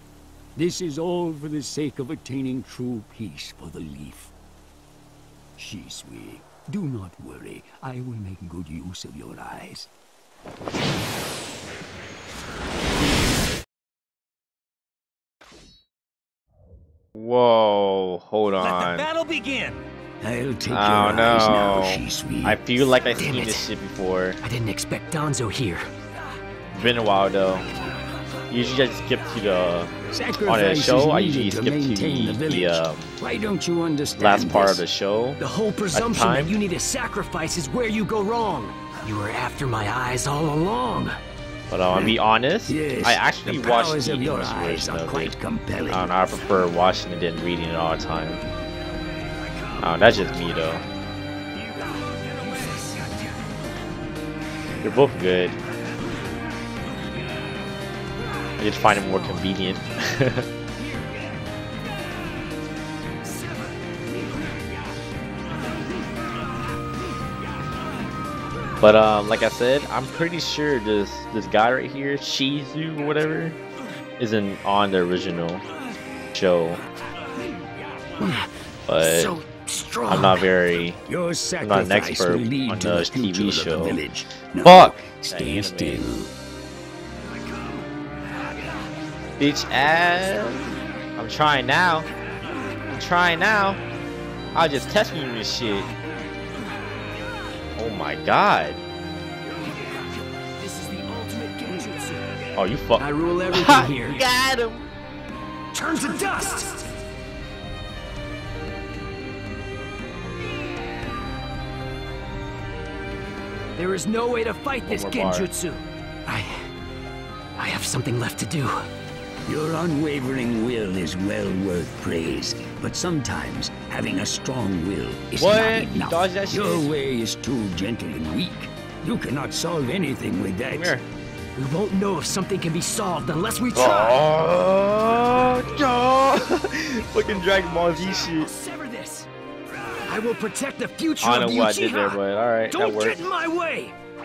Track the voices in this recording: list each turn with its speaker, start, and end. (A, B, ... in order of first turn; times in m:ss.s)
0:00.6-0:04.3 A
0:05.6-0:09.9 A
0:17.2-0:19.1 B
0:18.6-0:22.6 A
0:20.7-0:24.4 B
0:23.1-0:23.7 C
0:24.4-0:25.9 C
0:26.7-0:27.7 B
0:28.5-0:29.9 B
0:30.1-0:34.8 A
0:30.4-0:33.1 B
0:34.2-0:35.4 B
0:35.4-0:41.2 C
0:35.9-0:36.6 B
0:41.7-0:45.4 B
0:42.7-0:46.1 A
0:45.9-0:48.4 B
0:49.8-0:50.8 B
0:51.9-0:53.2 A
0:52.5-0:52.9 C
0:54.8-0:55.6 B
0:58.6-1:00.5 B
1:08.8-1:13.6 B
1:14.2-1:15.6 B
1:16.3-1:16.8 B
1:18.9-1:19.4 B
1:19.0-1:20.4 C
1:20.0-1:21.0 B
1:21.1-1:26.3 A
1:21.6-1:24.0 B
1:24.6-1:26.1 B
1:29.4-1:32.1 B
1:32.9-1:33.8 B
1:34.5-1:35.9 B
1:37.8-1:38.8 B
1:40.6-1:42.4 C
1:42.6-1:44.9 B
1:43.0-1:44.2 C
1:45.8-1:46.8 C
1:53.8-1:56.7 C
1:54.9-1:55.5 B
1:57.6-1:58.9 C
1:59.5-2:11.0 A
2:05.4-2:06.9 B
2:10.7-2:11.0 B
2:11.6-2:14.3 C
2:13.8-2:18.5 B
2:17.4-2:19.3 C
2:20.0-2:22.2 C
2:21.2-2:23.3 B
2:22.7-2:23.9 C